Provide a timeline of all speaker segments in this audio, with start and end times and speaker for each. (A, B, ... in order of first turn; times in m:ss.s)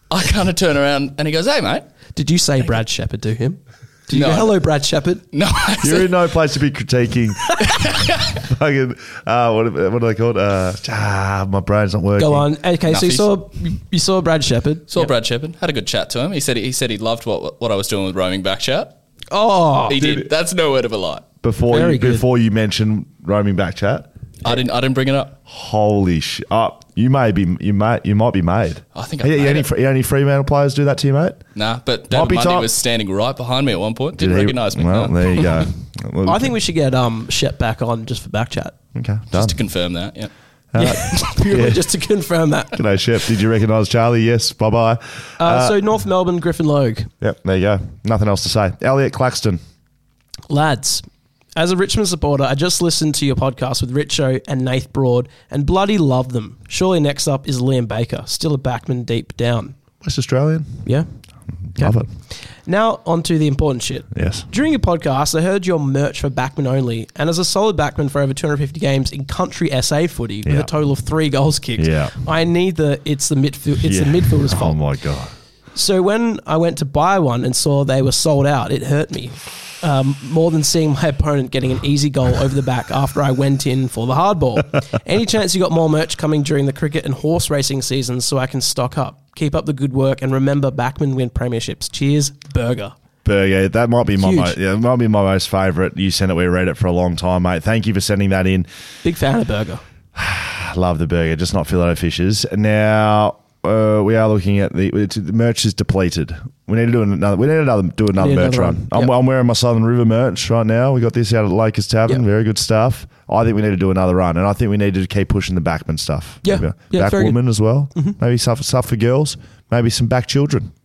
0:00.1-0:01.9 A
0:02.1-0:05.2 B
0:04.1-0:04.6 A
0:05.3-0:06.2 A
0:05.8-0:07.7 C
0:07.6-0:08.3 A
0:08.3-0:12.5 C
0:12.2-0:15.1 B
0:12.8-0:13.4 A
0:14.9-0:19.0 A
0:19.3-0:20.0 B
0:19.9-0:21.3 A
0:20.0-0:20.3 C
0:21.4-0:24.1 C
0:21.7-0:22.2 B
0:24.4-0:25.4 A
0:25.4-0:31.4 C
0:28.9-0:29.7 A
0:31.6-0:35.7 A
0:32.1-0:32.7 C
0:34.2-0:36.5 C
0:36.2-0:38.7 B
0:38.9-0:39.6 C
0:39.3-0:40.3 A
0:40.7-0:41.9 C
0:40.8-0:42.8 B
0:42.7-0:45.8 C
0:45.4-0:47.1 B
0:47.2-0:49.6 C
0:50.5-0:59.7 B
1:00.0-1:00.8 C
1:01.7-1:02.1 C
1:02.6-1:14.8 B
1:04.1-1:04.4 C
1:10.4-1:10.7 C
1:11.8-1:12.1 C
1:13.8-1:15.3 C
1:15.7-1:32.9 B
1:33.2-1:38.7 C
1:34.2-1:34.6 B
1:39.0-1:39.8 B
1:40.1-2:00.7 C
1:48.2-1:49.1 B
1:56.4-1:57.4 B